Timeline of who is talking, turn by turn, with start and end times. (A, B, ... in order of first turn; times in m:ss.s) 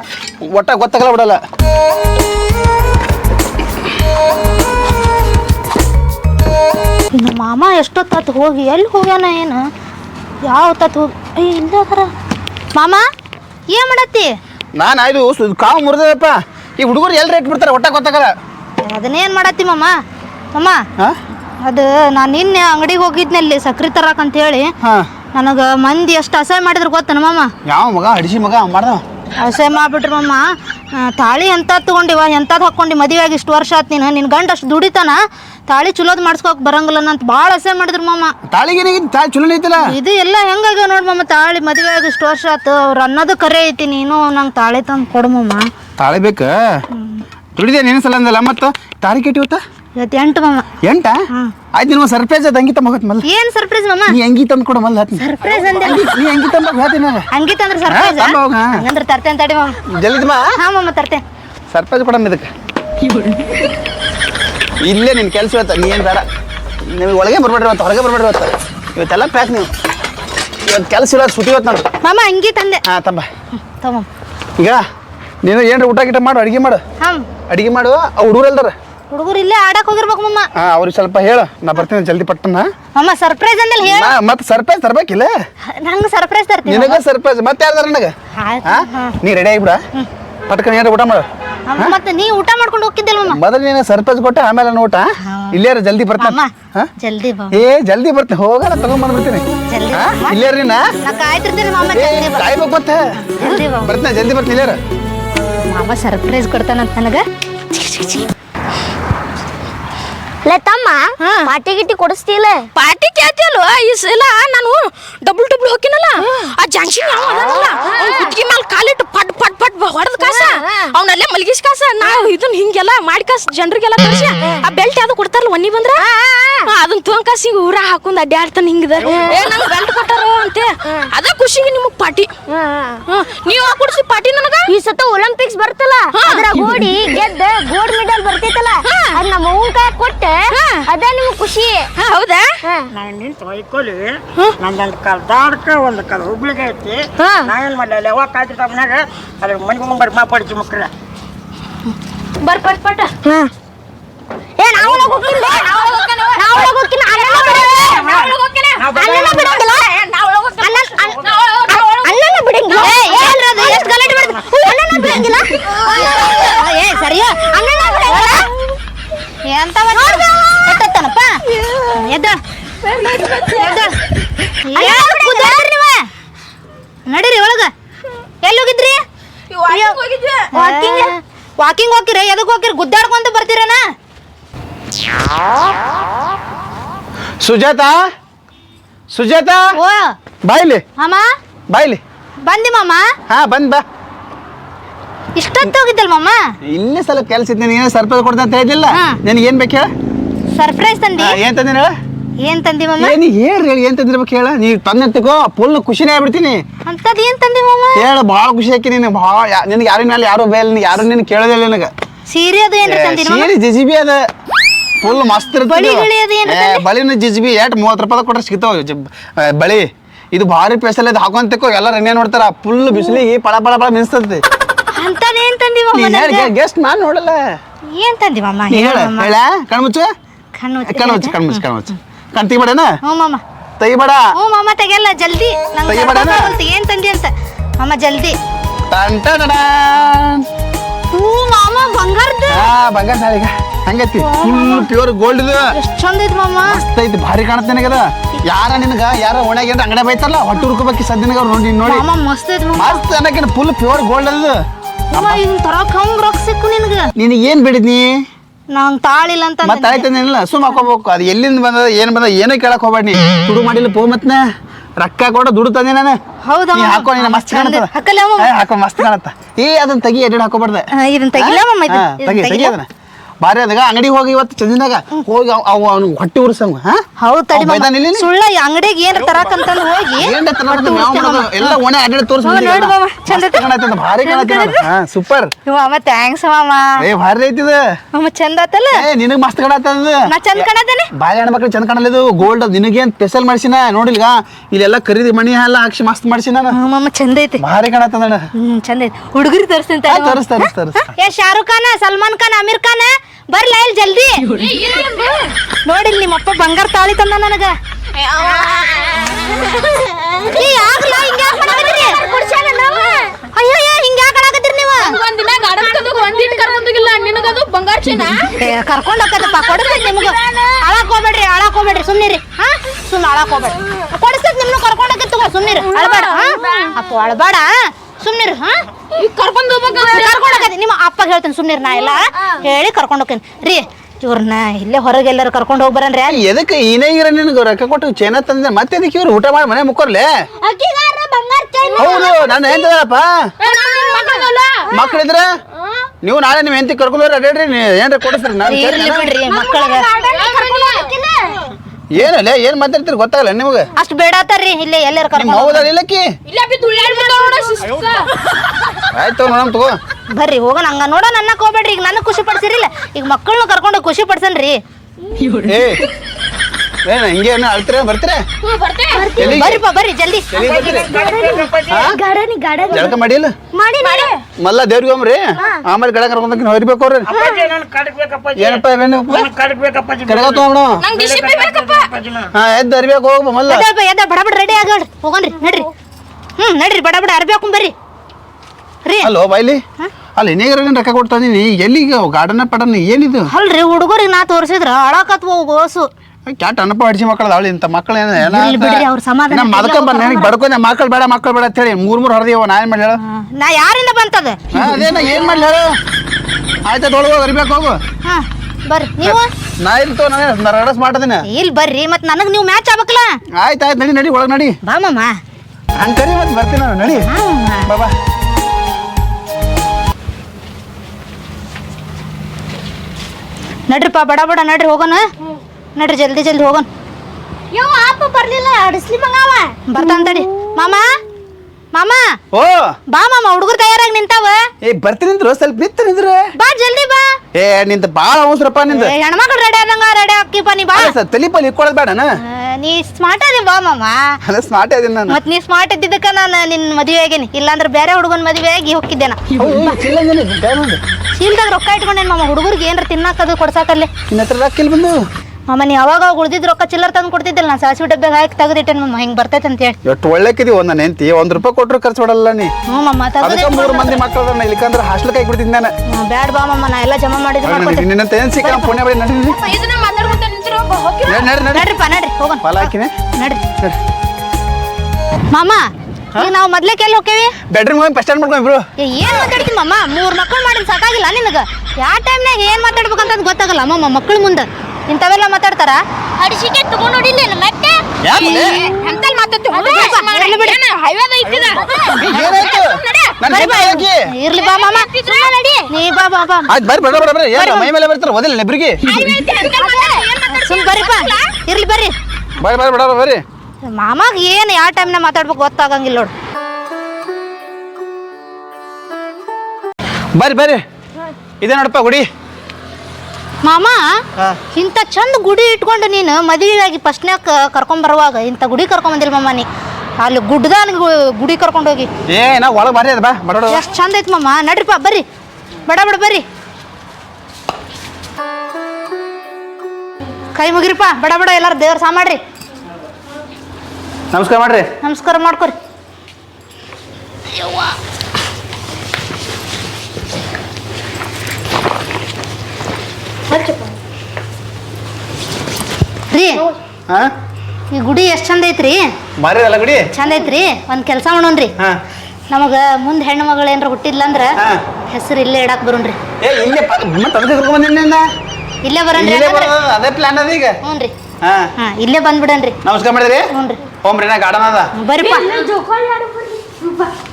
0:00.4-0:01.4 A
0:07.1-0:09.6 B
0:10.4-0:12.1 B
0:12.7-0:13.0 B
0:13.7-0:14.3 B
0:14.8-0:18.3 A
0:18.8-0:20.0 B
0:20.5-0:20.8 B
0:21.6-0:24.7 B
0:24.8-0:25.1 A
0:25.3-0:27.5 B
0:27.7-0:29.0 A
0:29.4-0:38.3 B
0:38.5-0:39.9 A
0:39.8-0:45.7 B
0:46.0-0:46.7 A
0:46.9-0:47.2 B
0:47.6-0:49.6 A
0:50.0-0:50.7 B
0:50.8-0:51.2 A
0:51.8-0:53.3 A
0:53.2-0:54.2 B
0:54.1-0:57.3 A
0:55.2-0:56.0 B
0:57.3-0:59.8 B
0:57.9-0:58.8 A
0:59.9-1:00.5 A
1:00.6-1:01.2 B
1:01.7-1:02.5 A
1:03.1-1:03.4 C
1:04.8-1:06.2 A
1:06.8-1:09.7 A
1:10.7-1:11.9 A
1:12.0-1:12.8 B
1:12.9-1:13.3 A
1:13.6-1:14.1 B
1:15.4-1:16.8 A
1:17.0-1:17.3 B
1:17.5-1:18.7 A
1:19.1-1:20.5 B
1:20.6-1:22.7 A
1:23.0-1:24.2 B
1:23.8-1:25.3 A
1:25.7-1:27.0 B
1:26.7-1:28.1 A
1:28.4-1:29.2 B
1:28.6-1:29.8 A
1:30.5-1:31.3 A
1:31.7-1:33.4 B
1:33.3-1:36.9 A
1:35.2-1:35.6 B
1:36.2-1:37.6 B
1:37.5-1:40.9 A
1:39.7-1:40.4 B
1:41.0-1:42.5 B
1:41.9-1:44.8 A
1:43.4-1:44.0 B
1:45.6-1:48.3 B
1:50.4-1:52.7 D
1:51.2-1:51.5 C
1:52.7-2:06.1 C
2:00.2-2:00.5 D
2:06.0-2:06.7 D
2:06.6-2:12.3 C
2:12.5-2:13.0 D
2:13.1-2:14.7 C
2:14.7-2:21.9 D
2:16.1-2:17.2 C
2:18.8-2:19.2 C
2:20.5-2:20.9 C
2:22.0-2:22.6 C
2:22.6-2:22.9 D
2:22.9-2:30.9 E
2:27.2-2:27.6 D
2:32.4-2:33.1 B
2:33.2-2:33.5 D
2:34.6-2:35.8 D
2:35.4-2:42.1 C
2:36.4-2:38.1 D
2:36.6-2:38.2 B
2:38.9-2:39.9 D
2:40.6-2:46.5 D
2:42.7-2:43.2 C
2:42.8-2:44.4 B
2:45.9-2:47.5 B
2:47.4-2:48.5 D
2:48.1-2:48.5 B
2:49.5-2:51.4 B
2:50.0-2:50.5 D
2:51.9-2:52.4 B
2:52.8-2:53.9 C
2:53.6-2:54.0 B
2:54.6-2:56.1 B
2:54.8-2:55.6 D
2:57.1-2:57.7 B
2:58.4-2:59.0 B
2:59.5-3:00.5 C
2:59.7-3:00.0 B
3:00.5-3:03.8 B
3:00.6-3:01.1 D
3:07.4-3:08.0 A
3:09.1-3:09.8 A
3:09.7-3:10.1 B
3:10.4-3:10.8 A
3:11.0-3:11.2 B
3:11.7-3:12.0 A
3:12.5-3:13.1 B
3:13.3-3:13.8 A
3:15.4-3:16.4 B
3:16.6-3:19.9 A
3:18.9-3:19.2 B
3:20.6-3:21.4 B
3:21.2-3:21.9 A
3:22.4-3:23.2 B
3:23.0-3:26.6 A
3:26.9-3:28.1 B
3:28.0-3:31.9 A
3:32.3-3:33.5 B
3:32.8-3:34.2 A
3:35.0-3:44.4 A
3:35.7-3:36.8 B
3:45.0-3:46.5 B
3:45.9-3:47.6 A
3:47.9-3:49.3 B
3:48.7-3:50.1 A
3:50.6-3:51.6 B
3:50.9-3:52.9 A
3:53.0-3:53.4 B
3:53.8-3:54.3 A
3:54.4-3:58.4 B
3:55.9-3:56.5 A
3:58.9-4:00.5 A
4:01.1-4:02.7 B
4:02.5-4:05.8 A
4:04.2-4:04.9 B
4:05.7-4:06.8 B
4:06.7-4:12.0 A
4:11.9-4:13.0 B
4:12.8-4:15.4 A
4:15.1-4:17.1 B
4:17.2-4:18.2 A
4:18.7-4:20.1 B
4:19.6-4:24.4 A
4:25.0-4:26.2 A
4:26.4-4:28.5 B
4:26.7-4:32.9 A
4:31.0-4:32.8 B
4:33.4-4:37.0 A
4:37.2-4:41.8 B
4:37.5-4:38.3 A
4:40.2-4:45.5 A
4:42.4-4:43.7 B
4:44.2-4:44.9 B
4:45.7-4:47.0 B
4:47.0-4:47.8 A
4:48.1-4:49.0 B
4:48.9-4:50.6 A
4:50.3-4:51.1 B
4:51.1-4:56.8 A
4:56.7-4:57.6 B
4:57.6-4:58.5 A
4:58.6-5:04.6 B
5:00.1-5:01.1 A
5:04.5-5:05.5 C
5:05.9-5:07.7 B
5:08.2-5:09.7 C
5:10.1-5:10.7 D
5:10.4-5:12.2 B
5:11.3-5:13.4 D
5:13.5-5:15.2 B
5:15.0-5:18.7 C
5:18.6-5:28.8 B
5:19.5-5:20.8 C
5:25.9-5:26.9 C
5:29.1-5:30.7 C
5:30.1-5:36.4 B
5:36.3-5:40.3 A
5:40.6-5:42.9 D
5:42.0-5:43.5 A
5:43.6-5:44.9 C
5:43.7-5:45.1 D
5:44.9-5:45.5 A
5:46.2-5:49.3 A
5:48.6-5:50.1 B
5:49.5-5:51.6 D
5:50.1-5:51.2 C
5:52.1-5:53.9 A
5:54.0-5:55.9 B
5:55.4-5:56.3 A
5:56.5-5:58.3 C
5:59.1-6:00.0 A
6:00.3-6:04.8 B
6:05.4-6:05.8 C
6:05.7-6:06.1 A
6:07.0-6:08.4 A
6:08.6-6:09.3 C
6:09.1-6:09.6 D
6:09.3-6:09.8 A
6:09.4-6:10.5 B
6:10.5-6:11.1 A
6:10.5-6:12.0 E
6:10.6-6:13.2 D
6:11.9-6:12.2 A
6:12.9-6:13.5 A
6:13.7-6:14.4 D
6:14.0-6:14.3 C
6:14.6-6:17.3 A
6:17.3-6:17.6 D
6:17.3-6:20.6 E
6:18.6-6:19.5 A
6:20.2-6:21.0 A
6:21.0-6:22.1 C
6:21.2-6:22.5 E
6:22.5-6:23.9 A
6:23.7-6:25.9 B
6:26.6-6:27.9 B
6:29.0-6:29.3 B
6:29.2-6:29.8 A
6:30.4-6:33.5 A
6:33.5-6:36.1 B
6:36.5-6:43.2 A
6:38.4-6:40.5 B
6:43.2-6:45.6 B
6:44.7-6:46.0 A
6:46.8-6:48.0 A
6:48.3-6:49.5 B
6:49.2-6:51.5 A
6:51.4-6:53.3 B
6:53.6-6:54.8 A
6:54.8-6:55.3 B
6:56.0-6:57.3 A
6:57.2-6:57.9 B
6:57.9-6:58.1 A
7:03.9-7:05.2 B
7:06.0-7:06.9 B
7:07.7-7:10.4 D
7:09.9-7:11.0 B
7:11.9-7:12.2 B
7:12.5-7:12.9 A
7:13.1-7:14.7 B
7:14.8-7:16.5 A
7:16.6-7:17.4 B
7:17.5-7:19.1 A
7:18.9-7:21.2 B
7:20.9-7:22.4 A
7:22.4-7:24.4 B
7:24.5-7:25.4 A
7:25.3-7:29.4 B
7:29.6-7:31.0 A
7:31.4-7:34.1 B
7:34.3-7:35.2 A
7:35.7-7:40.0 B
7:40.0-7:42.7 A
7:42.9-7:44.2 B
7:43.4-7:45.9 A
7:46.1-7:48.1 B
7:47.6-7:49.6 A
7:48.6-7:48.9 B
7:49.5-7:51.5 C
7:51.2-7:51.9 A
7:51.7-7:53.6 B
7:52.6-7:53.1 A
7:55.5-7:57.6 B
7:57.7-7:58.8 A
7:59.0-8:06.0 B
8:06.4-8:08.1 D
8:08.2-8:08.8 A
8:08.4-8:13.4 C
8:08.4-8:08.7 B
8:09.7-8:10.2 D
8:09.9-8:10.8 B
8:11.8-8:12.2 D
8:12.2-8:14.2 A
8:12.3-8:12.6 B
8:13.5-8:15.1 B
8:14.6-8:15.5 C
8:15.2-8:15.9 D
8:15.9-8:16.7 B
8:16.7-8:19.0 A
8:17.6-8:17.9 B
8:19.0-8:21.6 C
8:19.8-8:20.2 D
8:20.5-8:22.1 B
8:22.6-8:23.4 A
8:23.9-8:26.3 B
8:30.4-8:30.8 A
8:31.6-8:32.3 A
8:33.6-8:34.2 B
8:34.7-8:39.7 B
8:40.2-8:42.1 B
8:42.3-8:43.8 A
8:43.7-8:45.2 B
8:45.9-8:46.4 B
8:50.6-8:52.4 B
8:54.3-8:54.9 A
8:55.0-8:55.8 B
9:03.5-9:03.9 D
9:06.3-9:06.7 B
9:07.9-9:09.0 B
9:09.4-9:10.1 A
9:10.1-9:11.7 B
9:12.5-9:14.6 B
9:15.1-9:16.2 B
9:16.4-9:18.2 A
9:18.8-9:19.7 B
9:19.2-9:20.8 A
9:20.8-9:21.1 B
9:21.4-9:21.7 A
9:21.8-9:22.8 B
9:22.8-9:23.5 A
9:23.5-9:23.8 B
9:24.0-9:24.9 A
9:25.0-9:25.5 B
9:25.2-9:27.1 D